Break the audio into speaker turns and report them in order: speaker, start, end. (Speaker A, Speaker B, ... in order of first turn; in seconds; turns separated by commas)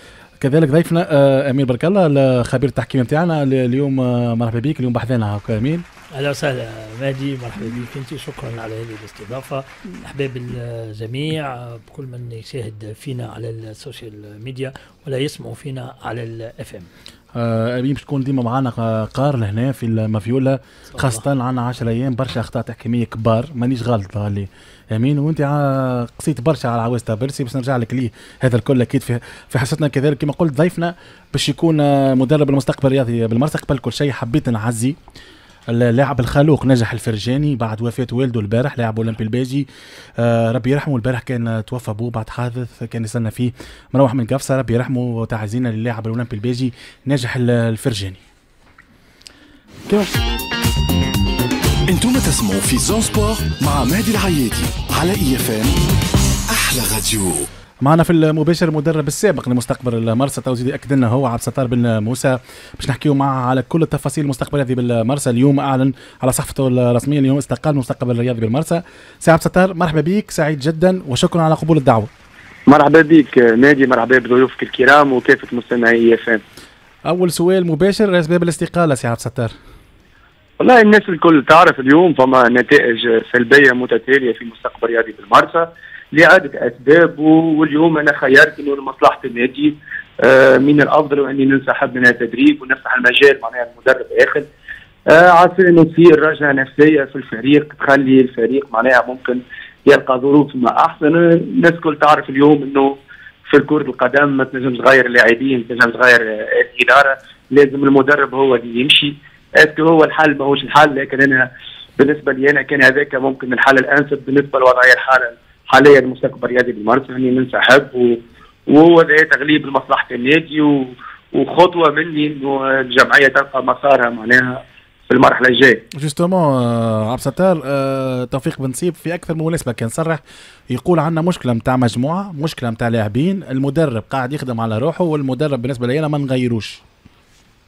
Speaker A: 0.4-5.8, Speaker B: 6.1-16.9, Speaker A: 17.3-35.0, Speaker A: 35.7-39.6, Speaker A: 40.2-48.2, Speaker A: 49.9-50.1, Speaker C: 51.9-55.9, Speaker C: 56.5-57.5, Speaker A: 57.8-72.1, Speaker D: 72.7-76.4, Speaker A: 77.0-79.5, Speaker D: 80.6-94.5, Speaker D: 95.1-102.9, Speaker D: 103.5-125.8, Speaker A: 125.9-136.8